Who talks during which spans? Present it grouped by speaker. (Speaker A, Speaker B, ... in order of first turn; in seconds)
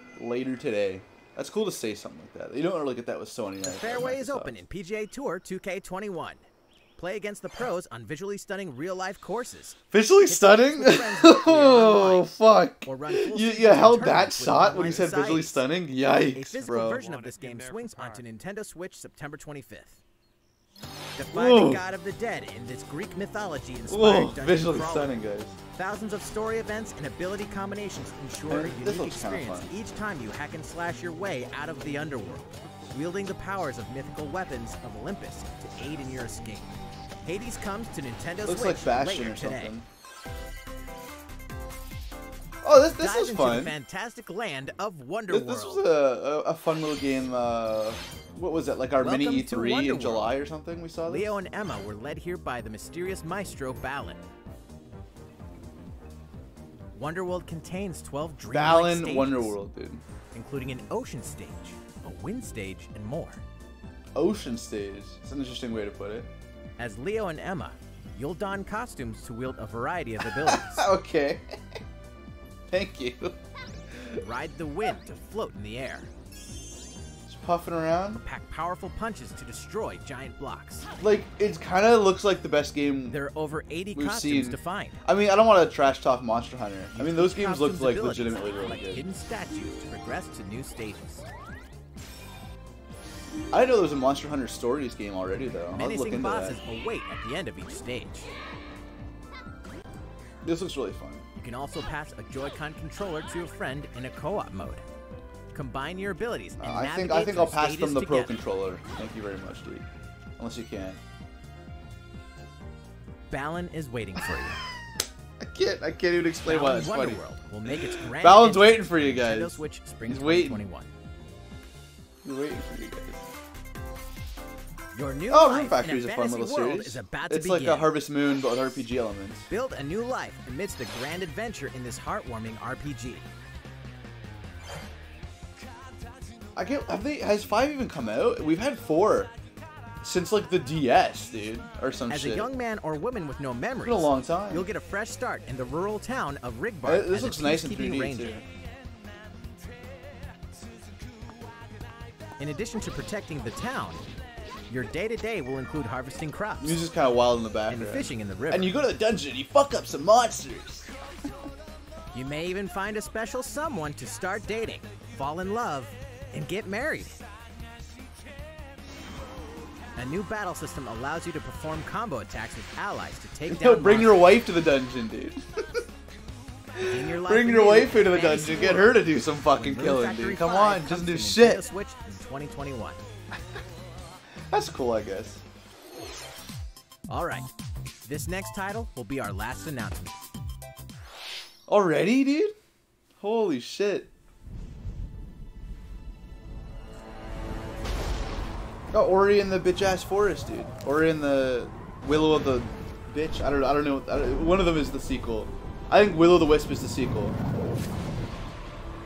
Speaker A: 0.1-4.5, 9.9-17.0, 21.3-21.8, 23.9-25.6, 28.5-29.7, 38.4-39.9, 42.6-43.7, 45.3-51.3, 58.5-60.0, 64.1-66.3, 70.4-71.5, 72.7-73.4, 73.9-74.2, 77.2-78.2, 81.0-83.2, 83.9-89.0, 93.5-96.6, 100.4-101.2, 106.5-109.9, 110.4-111.0, 115.4-120.6, 122.2-123.2, 125.3-129.5, 136.5-139.3, 140.0-142.5, 143.8-144.7, 146.8-148.4, 156.6-160.9, 173.5-175.8, 176.8-181.6, 184.5-185.4, 191.7-192.5, 193.2-194.1, 198.9-207.4
Speaker B: 3.6-6.4, 7.0-15.7, 16.3-20.0, 21.1-25.1, 25.7-39.8, 42.9-45.9, 49.0-50.4, 51.1-54.2, 56.9-59.6, 60.3-63.4, 66.8-70.9, 74.2-76.1, 78.1-80.9, 83.1-85.0, 86.9-91.2, 95.7-98.3, 101.4-104.8, 105.5-108.3, 113.3-114.6, 116.4-120.9, 124.9-128.0, 129.5-133.2, 142.1-148.4, 152.4-154.0, 154.7-156.8, 157.7-158.8, 162.1-167.2, 169.9-174.3, 176.9-183.0, 187.1-187.5, 188.0-190.2